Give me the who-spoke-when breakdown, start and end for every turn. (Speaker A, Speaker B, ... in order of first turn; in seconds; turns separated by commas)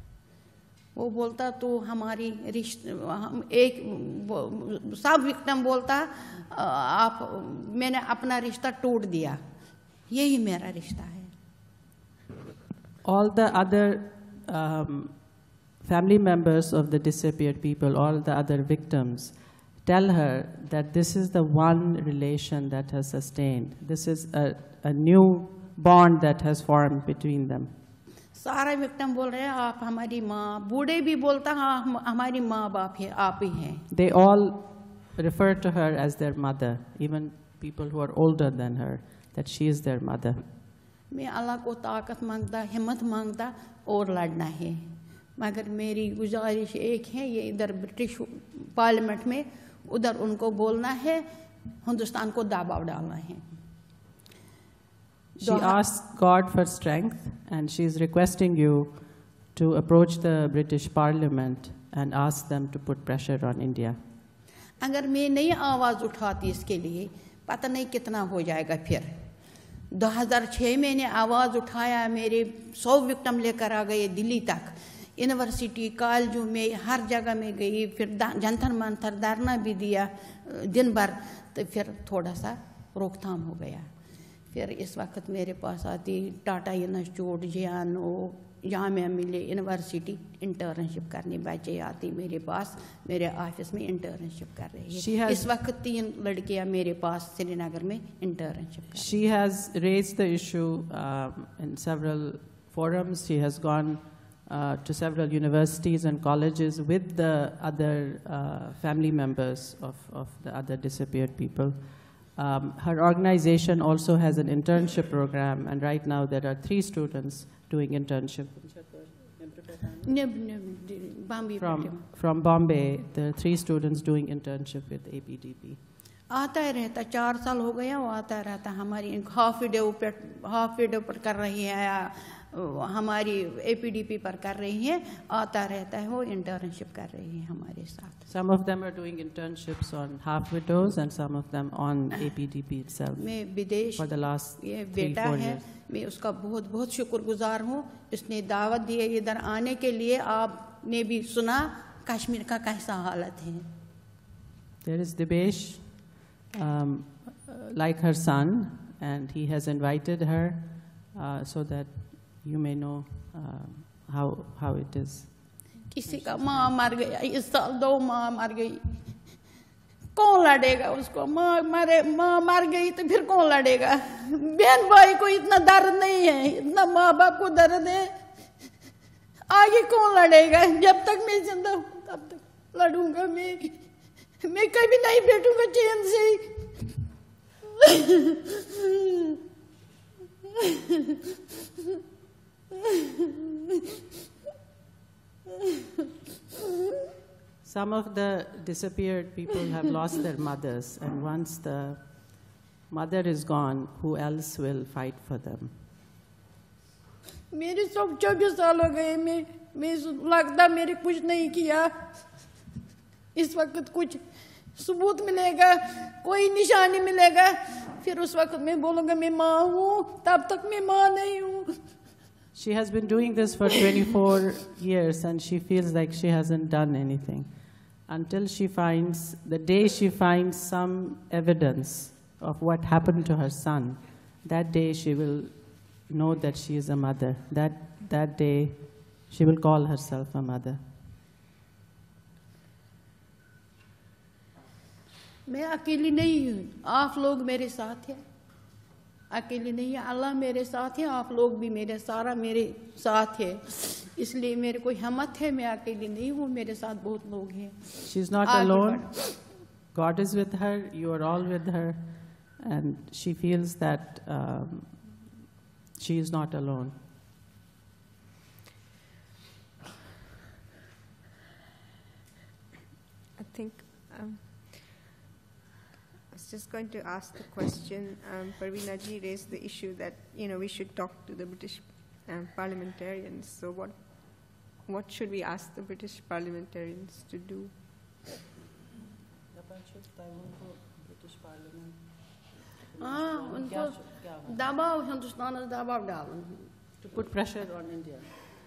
Speaker A: 0.9-9.4, Speaker A: 10.1-11.3, Speaker B: 13.0-27.7, Speaker A: 28.3-33.8, Speaker B: 33.9-40.4, Speaker A: 41.1-51.3, Speaker A: 51.8-53.4, Speaker B: 55.4-64.0, Speaker A: 55.4-55.8, Speaker A: 64.8-69.3, Speaker A: 69.9-83.9, Speaker A: 84.5-99.1, Speaker B: 94.9-95.5, Speaker B: 98.9-120.1, Speaker A: 120.0-122.0, Speaker B: 121.6-125.8, Speaker A: 126.3-138.2, Speaker B: 138.3-143.3, Speaker A: 143.1-153.7, Speaker B: 144.0-145.6, Speaker B: 154.8-166.7, Speaker A: 165.9-169.0, Speaker A: 170.1-178.2, Speaker A: 179.5-183.8, Speaker A: 184.4-187.0, Speaker A: 187.8-189.1, Speaker B: 197.6-205.7, Speaker A: 207.5-212.1, Speaker A: 213.3-214.2, Speaker A: 214.7-221.8, Speaker B: 222.5-240.8, Speaker A: 245.4-248.2, Speaker A: 249.3-259.3, Speaker B: 258.0-265.2, Speaker B: 265.9-266.9, Speaker C: 273.4-275.0, Speaker C: 276.3-287.8, Speaker B: 289.5-294.6, Speaker A: 293.0-296.7, Speaker B: 297.0-298.5